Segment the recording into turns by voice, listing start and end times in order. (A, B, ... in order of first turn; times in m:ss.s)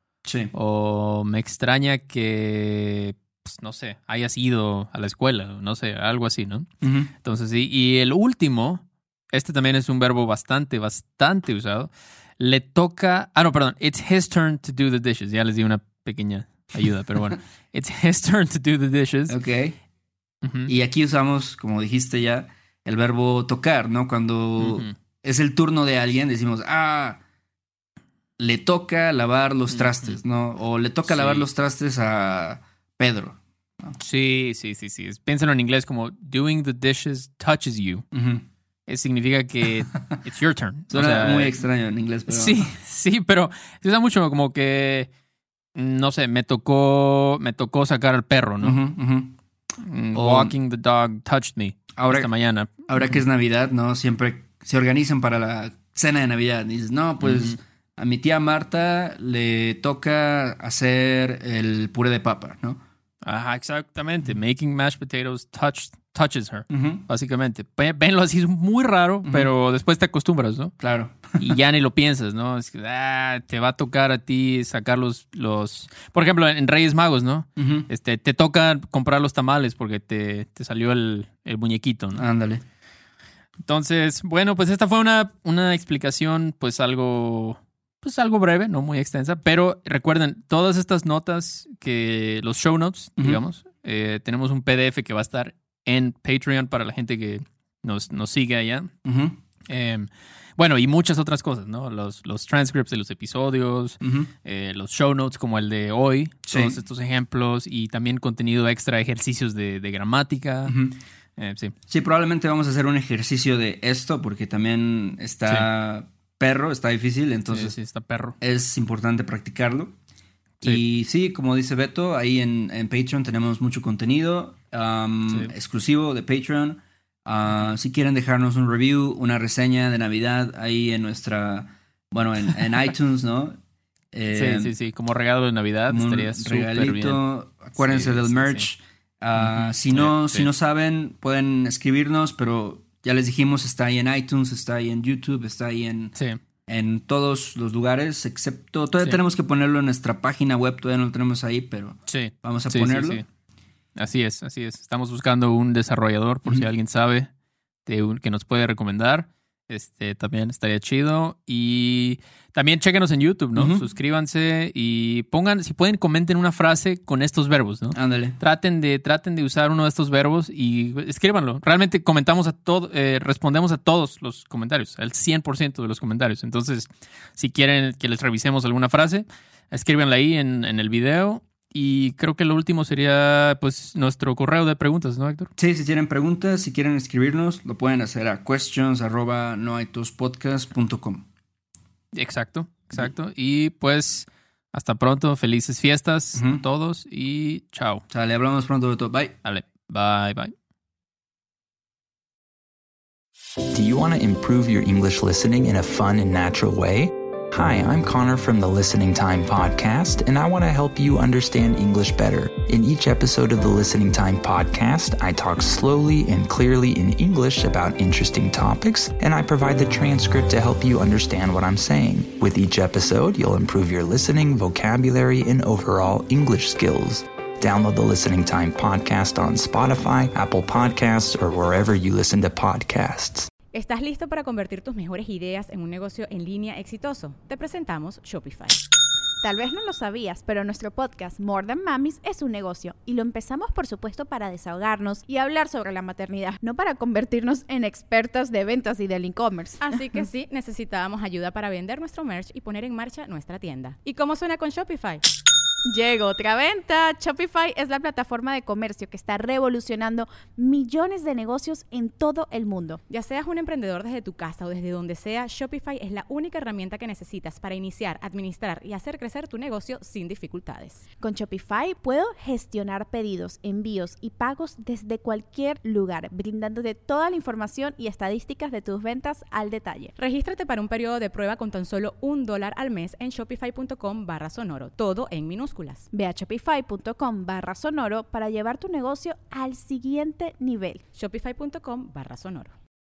0:00.2-0:00.5 A
0:00.5-0:19.4 B
0:06.8-0:07.1 A
0:19.3-0:19.8 A
0:20.4-0:20.7 B
0:20.7-0:27.2 A
0:24.6-0:24.9 B
0:28.4-0:34.0 A
0:29.7-0:30.2 B
0:31.0-0:31.5 B
0:34.0-0:38.0 B
0:38.1-0:38.4 A
0:38.9-0:41.6 B
0:40.9-0:42.7 A
0:42.3-0:45.1 B
0:45.7-0:48.8 B
0:48.6-0:49.3 A
0:49.8-0:53.2 B
0:50.1-0:50.5 A
0:52.0-0:52.3 A
0:52.9-1:02.8 A
0:57.2-0:57.6 B
1:03.2-1:10.8 B
1:06.7-1:07.0 A
1:10.8-1:11.5 A
1:11.4-1:22.2 B
1:17.6-1:17.9 A
1:22.2-1:22.6 A
1:23.6-1:38.9 B
1:39.0-1:39.4 A
1:39.7-1:50.8 B
1:44.0-1:44.3 A
1:46.5-1:46.8 A
1:50.6-1:51.0 A
1:51.4-1:51.7 B
1:51.9-1:57.8 A
1:57.5-1:58.4 B
1:58.4-1:59.9 A
2:00.6-2:13.6 A
2:14.1-2:14.7 A
2:14.3-2:17.2 B
2:15.9-2:26.1 A
2:17.8-2:18.7 B
2:19.4-2:20.5 B
2:26.7-2:33.2 A
2:32.1-2:33.2 B
2:34.0-2:37.3 B
2:37.9-3:05.5 B
2:43.6-2:43.8 A
2:47.9-2:48.4 A
3:05.6-3:11.2 A
3:12.1-3:18.0 B
3:16.4-3:16.6 A
3:18.1-3:19.4 A
3:19.4-3:20.5 B
3:23.7-3:53.5 C
3:53.7-3:58.8 D
3:59.4-4:10.2 E
4:09.8-4:15.2 D
4:15.9-4:23.0 E
4:23.1-4:31.0 D
4:31.2-4:40.1 E
4:40.2-4:46.1 D
4:46.1-4:51.0 E
4:51.1-4:52.7 D